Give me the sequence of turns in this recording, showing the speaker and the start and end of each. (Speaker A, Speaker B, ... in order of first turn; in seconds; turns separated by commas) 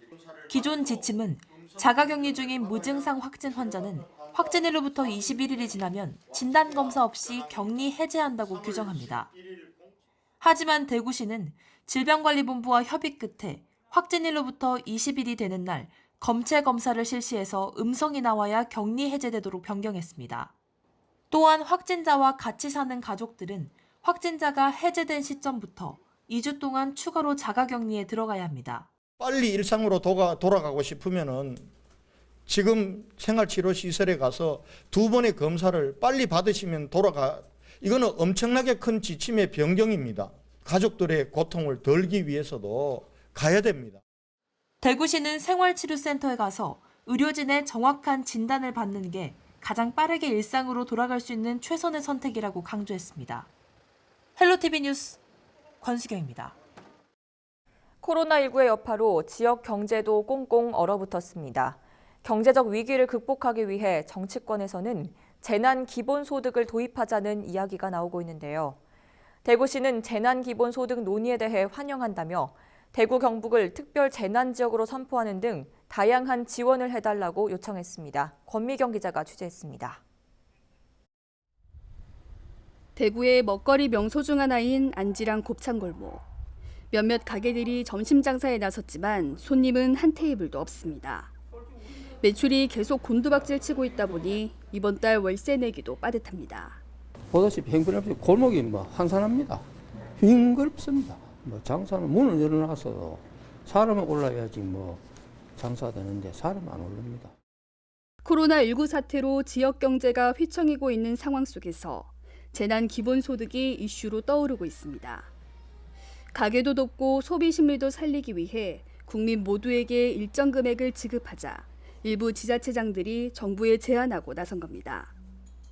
Speaker A: 0.4-0.8, Speaker B: 0.5-9.4, Speaker B: 10.4-20.5, Speaker B: 21.3-28.9, Speaker A: 29.2-31.7, Speaker A: 32.5-44.0, Speaker B: 44.8-53.5, Speaker B: 54.4-55.2, Speaker B: 55.8-56.5, Speaker C: 58.0-68.8, Speaker C: 69.4-80.0, Speaker D: 83.0-86.2, Speaker D: 86.9-91.3, Speaker D: 92.2-96.8, Speaker E: 97.3-99.7, Speaker E: 100.2-105.0, Speaker E: 105.6-107.3, Speaker D: 108.2-115.3, Speaker D: 116.3-125.1